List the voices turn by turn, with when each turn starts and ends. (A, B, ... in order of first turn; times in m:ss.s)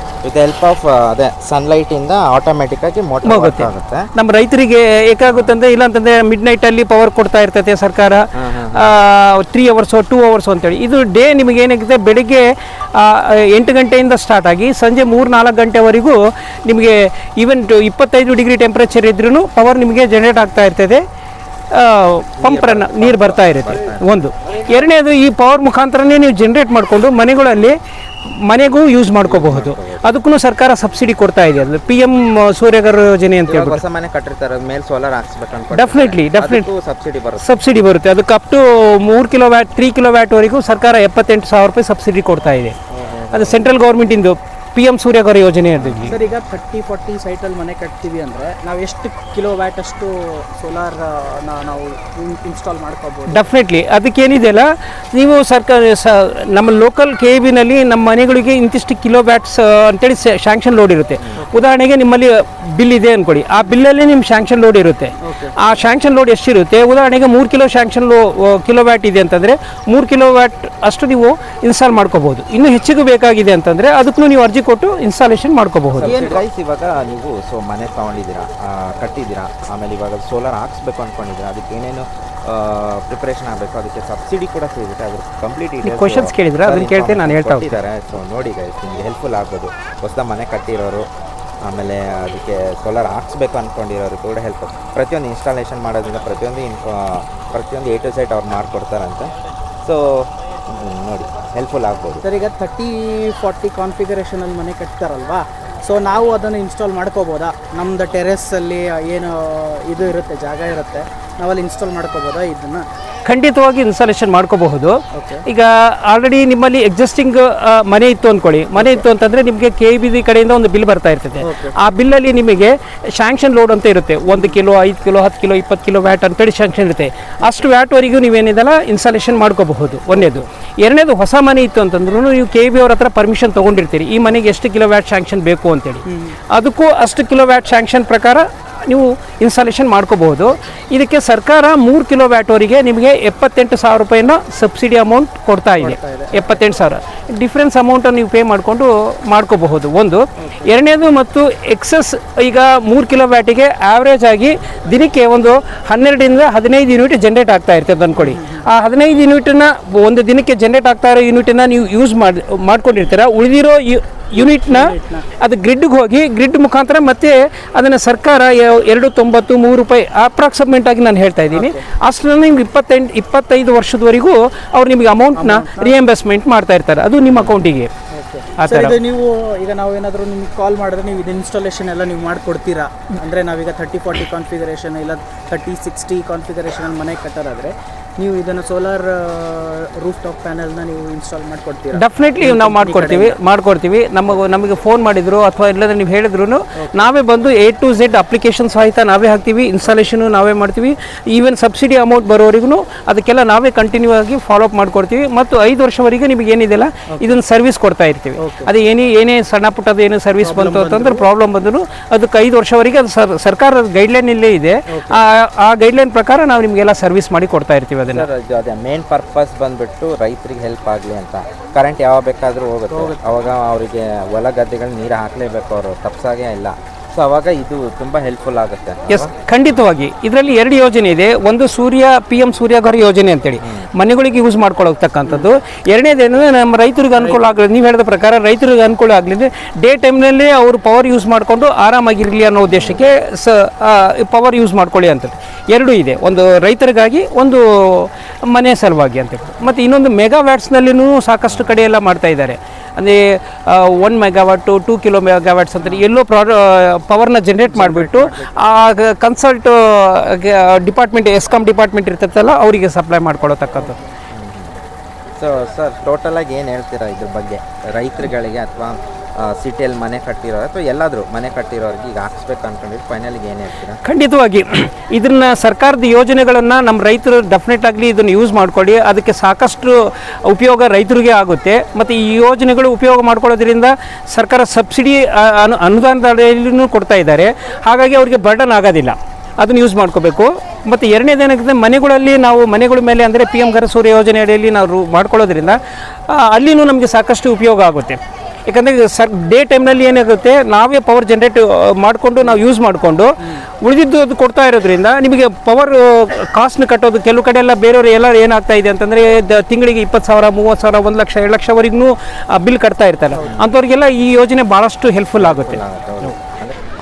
0:00.2-0:04.1 A
0:03.2-0:21.0 B
0:05.3-0:05.5 A
0:08.4-0:08.9 A
0:21.7-0:27.7 B
0:22.4-0:24.1 A
0:28.3-0:33.8 B
0:29.2-0:30.1 A
0:33.5-0:37.6 A
0:35.7-0:36.7 B
0:37.4-0:42.8 B
0:42.9-0:43.7 A
0:43.3-0:46.2 B
0:45.8-0:46.2 A
0:46.1-0:53.5 C
0:53.3-1:16.4 B
1:05.2-1:05.5 C
1:15.9-1:31.1 A
1:25.8-1:27.8 B
1:31.6-1:39.3 A
1:39.8-1:42.2 A
1:42.2-1:52.8 C
1:53.2-2:57.9 B
1:55.1-1:55.4 C
1:58.8-1:59.0 C
2:01.4-2:01.7 C
2:10.1-2:10.4 C
2:16.0-2:16.4 C
2:25.8-2:26.6 C
2:30.4-2:30.7 C
2:38.2-2:38.6 C
2:44.4-2:45.2 C
2:51.5-2:51.8 C
2:55.3-2:55.9 C
2:57.3-2:57.6 C
2:58.1-3:13.4 C
2:58.6-2:59.0 B
3:11.9-3:38.3 B
3:16.8-3:17.1 C
3:27.1-3:27.4 C
3:28.4-3:28.7 C
3:30.4-3:31.2 C
3:34.9-3:35.2 C
3:38.0-3:49.8 A
3:42.9-3:43.3 C
3:49.1-4:24.0 B
3:53.6-3:53.9 A
4:02.7-4:03.0 A
4:11.4-4:11.8 A
4:17.6-4:18.5 C
4:24.3-4:24.8 A
4:25.4-4:34.0 A
4:34.0-5:15.8 B
5:15.4-5:16.8 A